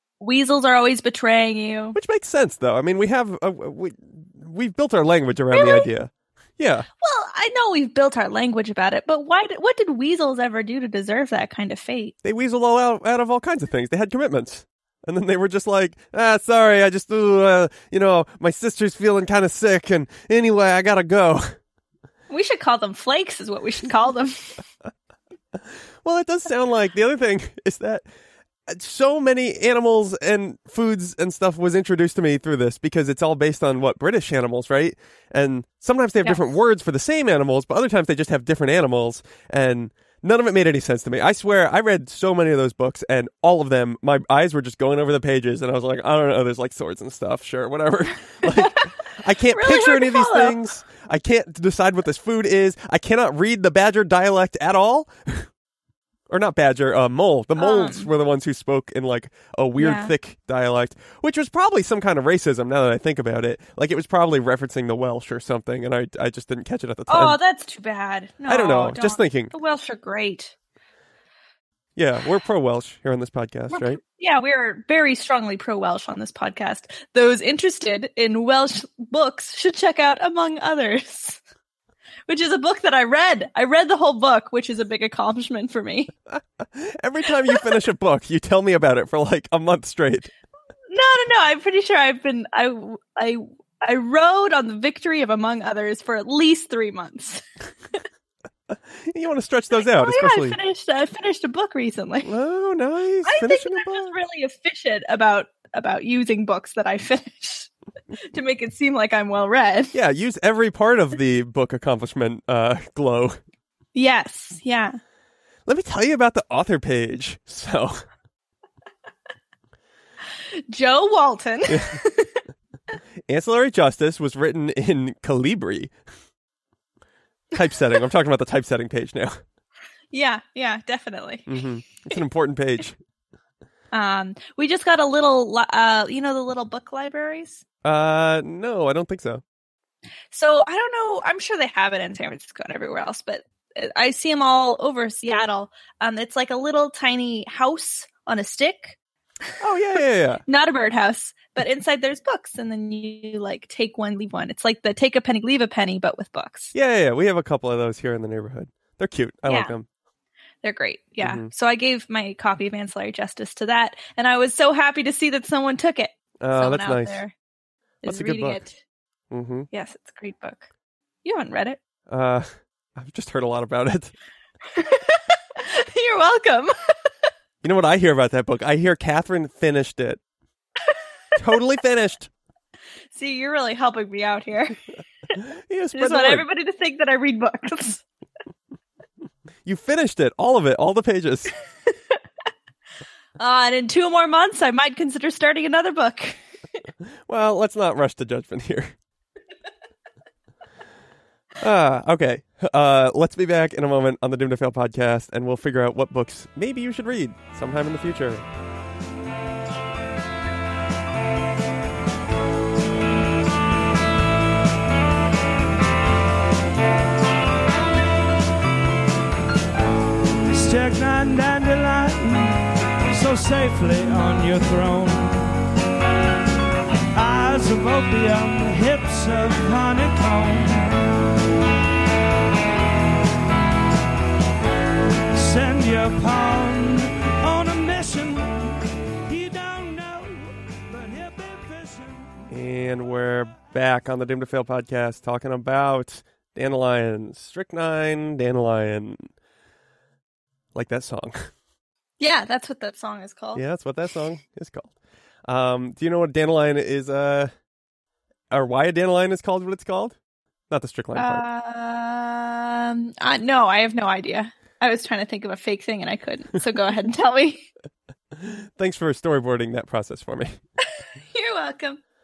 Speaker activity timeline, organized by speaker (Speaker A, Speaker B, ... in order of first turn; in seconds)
Speaker A: 0.2-2.0, 5.5-5.9, 7.0-12.1, 22.3-24.6, 48.5-48.9, 49.5-50.6, 57.6-58.1, 59.8-60.1, 67.1-70.5, 73.7-81.4, 82.3-86.1, 90.9-97.4, 99.8-102.3, 103.2-107.7, 108.3-109.9, 114.0-115.0, 120.6-122.4, 130.1-131.5, 133.9-137.6, 140.3-149.0, 150.5-156.7, 159.5-159.7, 160.6-167.3, 168.0-168.8, 169.7-170.7, 171.2-171.8, 174.8-176.8, 183.1-184.8, 185.9-188.0, 193.4-196.4, 252.2-253.6, 261.1-267.7, 271.3-272.0
Speaker B: 1.9-6.9, 12.2-21.5, 26.0-28.1, 28.7-55.5, 56.3-67.4, 68.5-69.5, 72.0-74.0, 86.3-90.3, 98.7-100.6, 102.2-104.1, 109.9-113.4, 115.7-118.0, 121.7-122.0, 123.3-125.9, 127.5-129.4, 131.5-132.9, 137.8-139.4, 149.6-150.4, 156.7-159.9, 161.2-161.5, 166.4-167.2, 168.0-168.6, 169.3-169.7, 172.1-174.1, 177.6-180.2, 181.4-182.3, 185.4-186.4, 189.6-191.5, 197.3-198.9, 201.6-208.4, 242.5-249.2, 250.7-251.5, 253.5-254.9, 255.5-257.5, 258.5-260.1, 260.7-261.4, 268.4-270.6
Speaker C: 220.5-225.6, 227.1-231.2, 235.3-242.4